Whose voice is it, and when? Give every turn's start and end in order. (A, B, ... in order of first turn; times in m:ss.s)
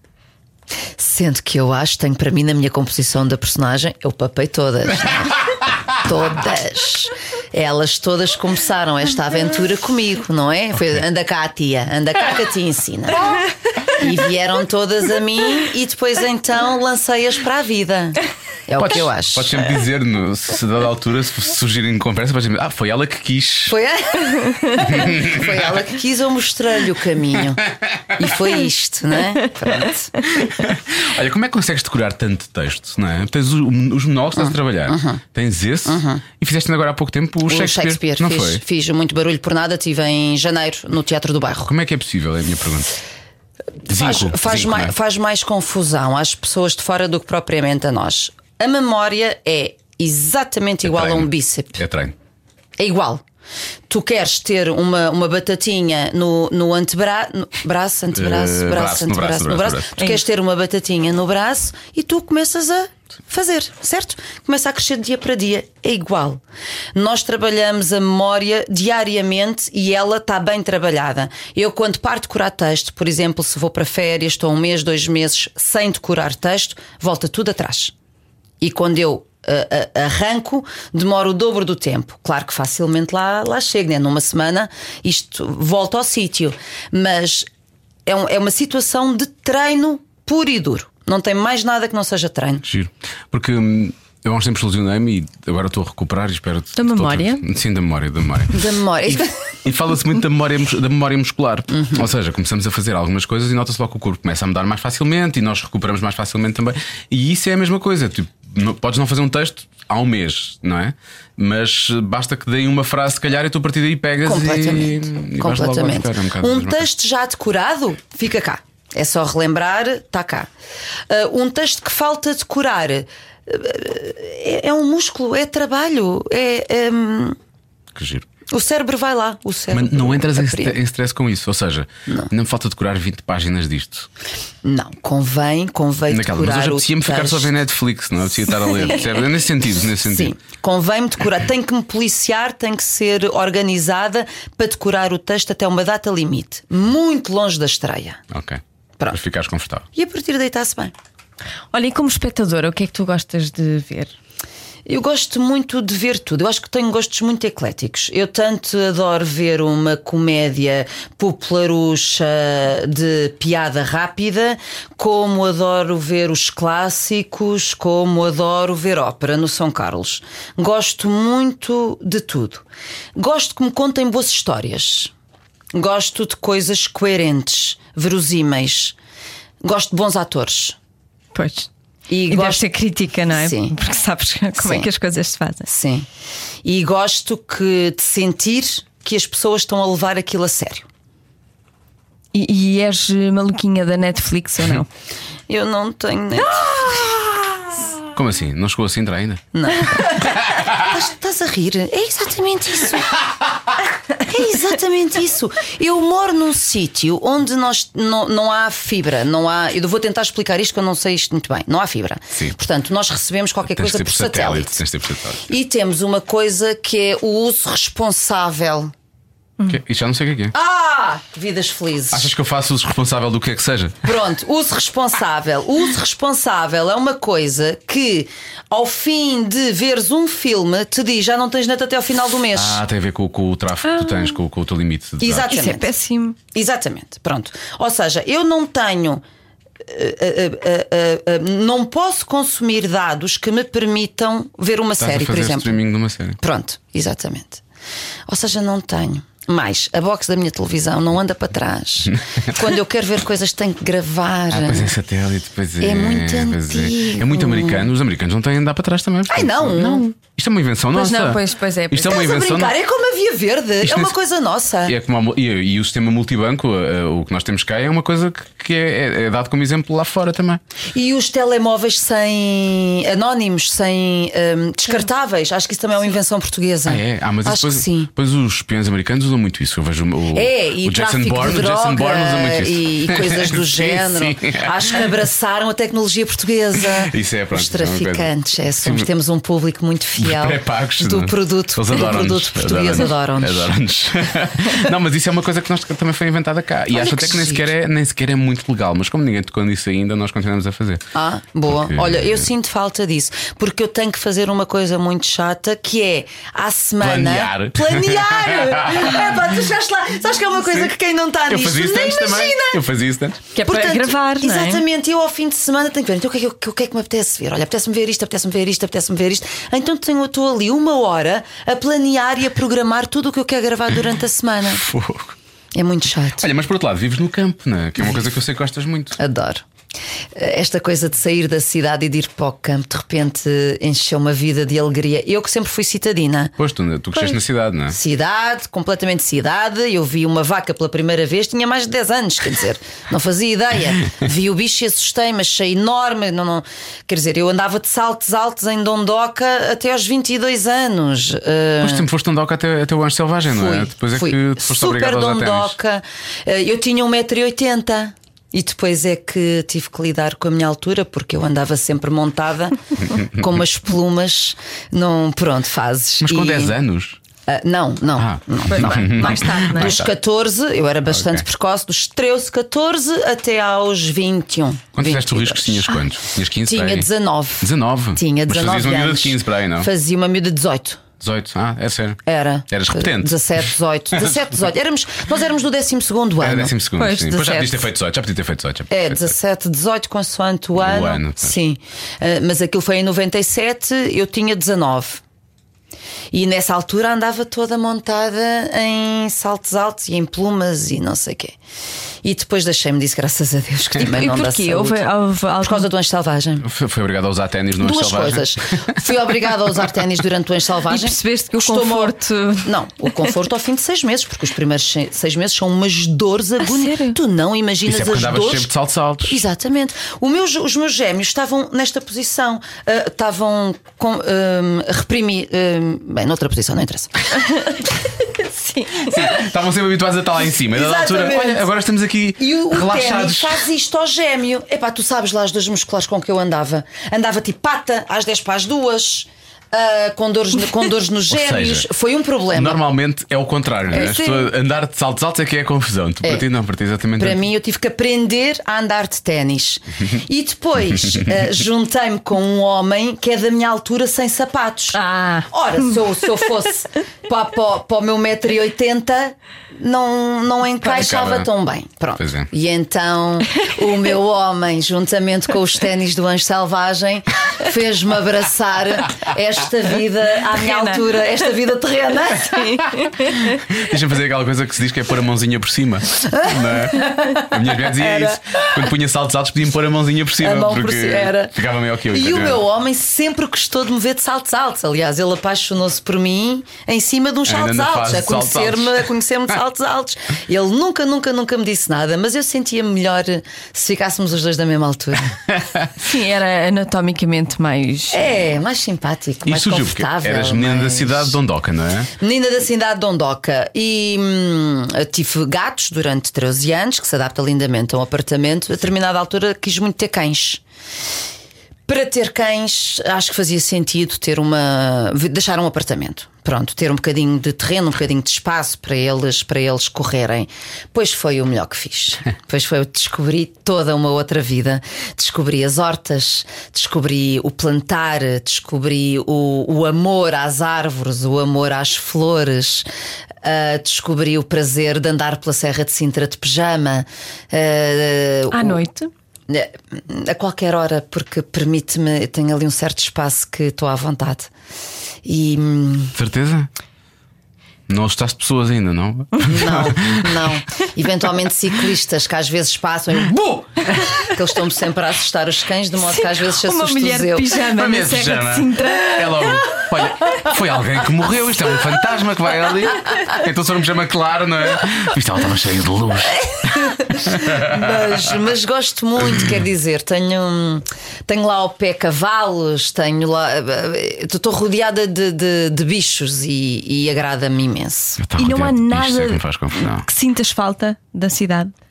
0:01.0-0:19.6 A
0:18.8-0:23.8 B
0:23.7-0:30.3 A
0:24.8-0:25.6 B
0:27.7-0:28.3 B
0:30.4-0:38.6 B
0:34.4-0:35.2 A
0:35.9-0:36.2 A
0:37.5-0:41.7 A
0:41.7-0:42.9 B
0:43.9-0:44.9 B
0:43.9-0:51.8 A
0:50.8-0:52.2 B
0:52.8-0:53.2 A
0:53.9-1:06.4 A
0:58.1-1:00.0 B
1:07.0-1:17.9 A
1:18.6-1:27.5 A
1:28.1-1:32.6 A
1:32.6-1:56.9 B
1:36.8-1:37.4 C
1:38.5-1:39.4 A
1:41.7-1:42.0 A
1:54.2-2:00.5 A
2:01.1-2:07.4 A
2:08.0-2:08.3 B
2:08.5-2:10.8 A
2:09.7-2:14.1 B
2:14.6-2:17.5 A
2:16.1-2:20.3 B
2:18.6-2:19.0 A
2:20.0-2:28.2 A
2:28.3-2:29.9 B
2:30.0-2:31.0 A
2:31.7-2:34.2 C
2:34.9-2:52.6 A
2:53.2-2:55.1 A
2:55.7-2:59.0 A
2:59.6-3:00.8 A
3:01.3-3:01.7 C
3:02.1-3:02.7 A
3:02.3-3:05.7 C
3:03.3-3:03.7 A
3:04.6-3:04.9 A
3:05.7-3:06.1 A
3:06.6-3:10.9 A
3:12.3-3:14.9 C
3:15.5-3:17.8 A
3:16.6-3:17.1 C
3:18.1-3:19.4 B
3:19.5-3:23.2 A
3:24.2-3:34.8 A
3:33.7-3:35.5 B
3:35.5-3:38.9 A
3:39.7-3:40.6 B
3:40.5-3:42.3 A
3:42.1-3:44.1 B
3:44.0-3:52.8 A
3:52.5-3:55.6 B
3:53.8-3:54.4 C
3:55.2-3:55.9 A
3:55.5-3:56.4 C
3:56.5-3:59.2 A
3:59.9-4:05.8 A
4:05.0-4:06.4 B
4:06.4-4:07.6 A
4:08.3-4:14.9 A
4:14.5-4:22.8 B
4:15.8-4:17.9 A
4:19.3-4:20.1 A
4:20.9-4:22.2 C
4:22.0-4:25.0 A
4:23.8-4:24.1 B
4:24.8-4:30.6 B
4:30.9-4:38.1 A
4:36.9-4:45.0 B
4:40.3-4:53.8 A
4:47.0-4:48.3 B
4:48.8-4:49.1 B
4:50.2-5:01.0 B
4:56.9-4:57.7 A
5:01.1-5:12.8 A
5:01.7-5:02.4 B
5:07.0-5:09.2 B
5:11.5-5:13.4 B
5:13.6-5:14.8 C
5:13.6-5:24.9 A
5:24.7-5:25.4 B
5:25.7-5:26.5 A
5:26.4-5:29.2 B
5:29.2-5:29.6 A
5:30.4-5:36.6 A
5:36.6-5:38.0 B
5:37.2-5:52.1 A
5:51.8-5:55.8 B
5:53.5-6:06.8 A
6:06.2-6:07.2 B
6:07.5-6:16.0 A
6:08.2-6:10.1 B
6:08.7-6:10.0 C
6:11.1-6:11.4 B
6:15.0-6:17.1 B
6:16.6-6:21.0 A
6:17.6-6:19.9 B
6:21.2-6:23.6 B
6:22.3-6:26.8 A
6:26.4-6:29.4 B
6:27.0-6:27.8 C
6:28.9-6:35.2 A
6:30.8-6:31.6 B
6:36.3-6:41.6 A
6:42.2-6:45.1 A
6:44.0-6:45.9 C
6:45.6-6:46.7 A
6:46.6-6:48.9 B
6:47.8-7:07.4 A
6:50.9-6:52.7 C
6:56.6-6:57.2 C
6:57.8-6:59.4 B
7:07.5-7:09.2 C
7:09.0-7:13.6 B
7:10.7-7:11.7 A
7:12.4-7:22.8 A
7:21.3-7:21.9 B
7:22.5-7:27.5 B
7:24.0-7:24.5 C
7:24.0-7:24.3 A
7:27.2-7:52.9 A
7:34.9-7:35.9 C
7:40.8-7:41.5 B
7:42.2-7:42.5 B
7:50.6-7:51.0 C
7:52.4-7:53.5 C
7:53.5-8:02.6 B
7:56.3-7:58.9 A
8:00.4-8:01.5 A
8:02.1-8:15.4 A
8:07.5-8:09.1 B
8:15.5-8:15.9 B
8:16.0-8:18.3 C
8:18.1-8:21.4 A
8:19.5-8:22.1 B
8:22.2-8:30.6 A
8:31.9-8:52.9 A
8:53.4-8:58.8 A
8:58.5-8:59.1 C
8:59.5-9:04.5 A
9:05.2-9:06.2 A
9:06.2-9:06.7 B
9:07.9-9:10.5 B
9:09.4-9:17.6 A
9:16.0-9:19.6 C
9:17.7-9:28.2 B
9:26.4-9:38.2 A
9:38.2-9:40.1 B
9:38.4-9:41.7 C